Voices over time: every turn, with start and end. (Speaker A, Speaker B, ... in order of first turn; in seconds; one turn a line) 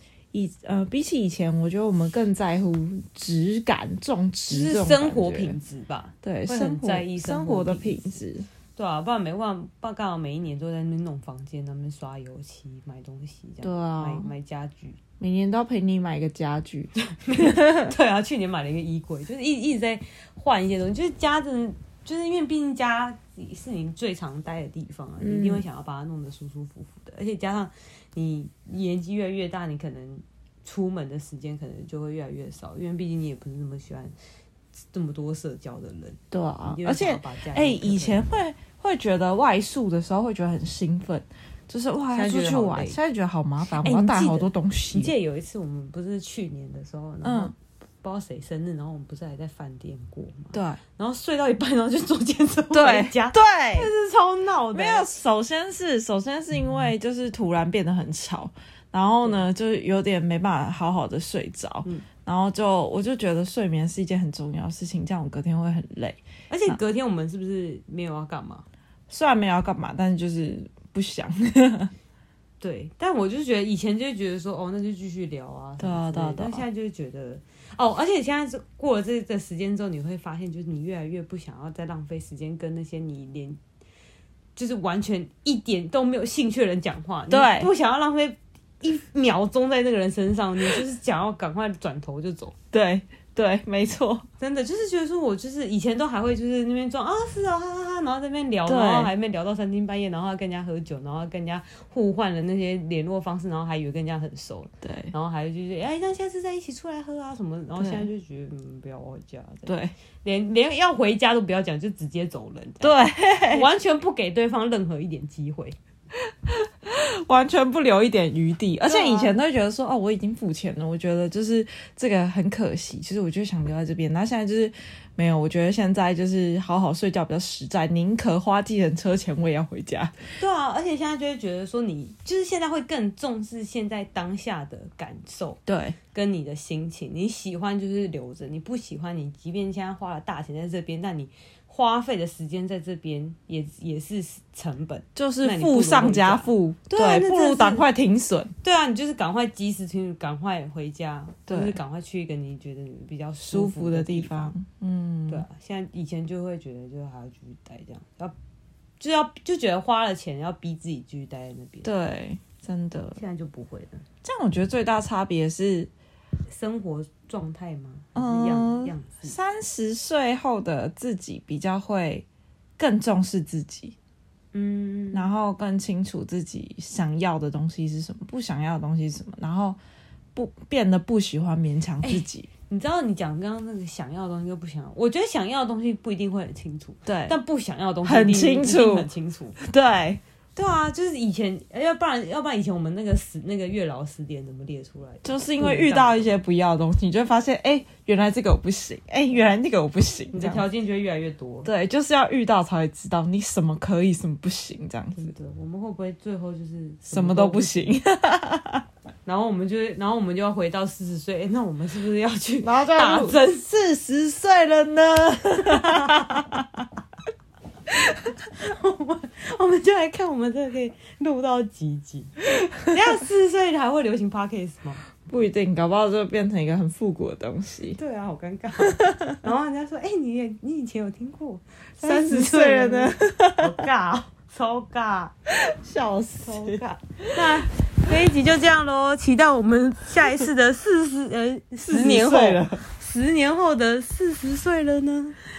Speaker A: 0.3-5.5
Speaker B: 4.5-8.0
Speaker A: 6.2-8.5
Speaker B: 8.8-15.0
Speaker A: 13.6-14.3
Speaker A: 15.2-17.9
Speaker B: 17.0-34.1
Speaker A: 25.2-25.6
Speaker B: 34.9-38.2
Speaker A: 36.3-45.1
Speaker B: 42.1-43.0
Speaker B: 43.8-55.1
Speaker A: 47.2-47.5
Speaker A: 50.5-50.8
Speaker A: 52.7-53.9
Speaker A: 54.7-66.8
Speaker B: 66.5-68.6
Speaker A: 69.1-71.9
Speaker B: 72.6-83.6
Speaker A: 75.8-76.7
Speaker B: 84.5-92.5
Speaker A: 87.3-87.7
Speaker A: 92.7-94.2
Speaker B: 94.4-115.8
Speaker A: 98.7-99.1
Speaker A: 104.8-105.1
Speaker A: 107.8-108.0
Speaker A: 109.7-109.9
Speaker A: 112.8-113.7
Speaker A: 116.3-130.1
Speaker B: 118.8-119.3
Speaker B: 130.4-135.6
Speaker A: 135.7-135.9
Speaker B: 136.1-147.8
Speaker A: 145.1-148.5
Speaker B: 148.6-154.5
Speaker A: 151.5-151.8
Speaker A: 153.4-155.4
Speaker B: 155.3-158.3
Speaker B: 159.0-161.9
Speaker A: 161.8-163.2
Speaker B: 163.1-164.0
Speaker A: 164.2-165.9
Speaker B: 166.5-169.3
Speaker A: 168.2-172.2
Speaker A: 172.8-173.9
Speaker B: 174.5-175.3
Speaker A: 175.1-179.8
Speaker A: 180.3-182.5
Speaker B: 182.0-189.6
Speaker A: 187.1-187.3
Speaker A: 188.0-189.1
Speaker A: 189.6-190.2
Speaker B: 190.6-196.3
Speaker A: 195.2-200.7
Speaker B: 200.3-201.7
Speaker A: 201.6-205.3
Speaker B: 205.2-207.9
Speaker A: 207.1-208.8
Speaker B: 209.2-213.6
Speaker A: 212.6-216.8
Speaker B: 215.6-216.4
Speaker B: 218.4-225.0
Speaker A: 225.3-228.0
Speaker B: 227.9-235.3
Speaker A: 228.9-229.4
Speaker A: 232.0-233.7
Speaker A: 235.5-237.6
Speaker B: 236.4-245.4
Speaker A: 241.8-242.8